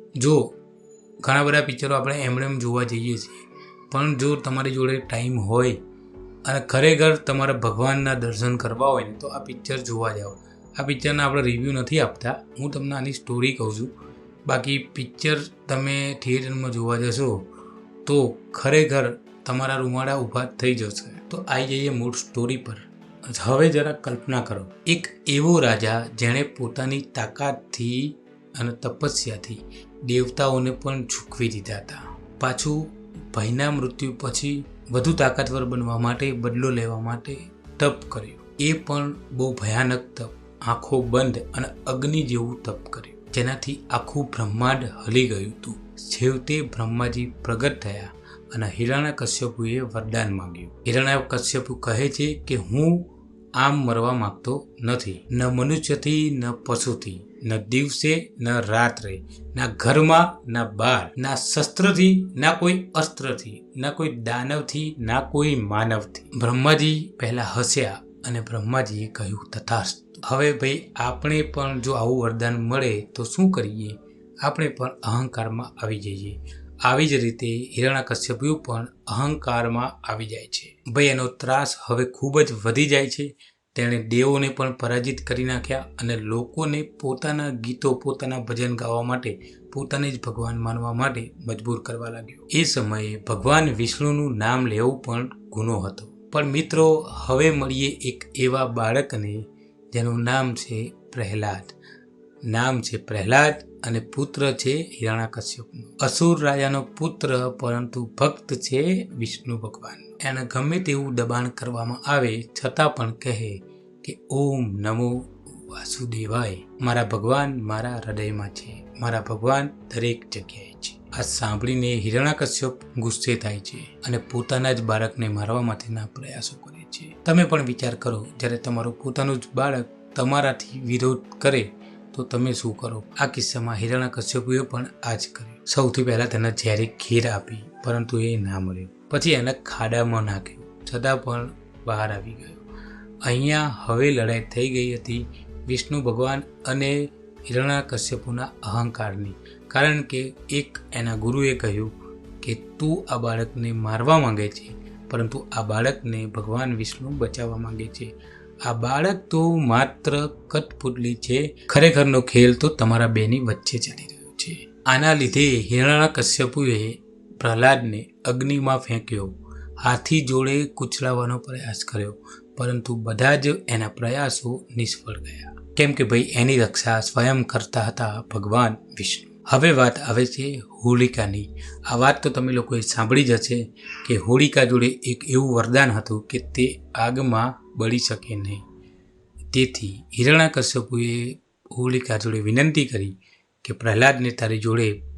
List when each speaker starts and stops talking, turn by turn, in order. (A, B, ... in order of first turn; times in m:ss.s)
0:00.2-0:00.6 A
0:01.2-0:05.8 A
0:06.4-0:13.9 A
0:14.5-0:17.5 A
0:18.0-1:41.8 A
1:42.5-2:22.6 A
2:23.2-2:38.1 A
2:38.6-3:08.6 A
3:09.5-3:15.0 A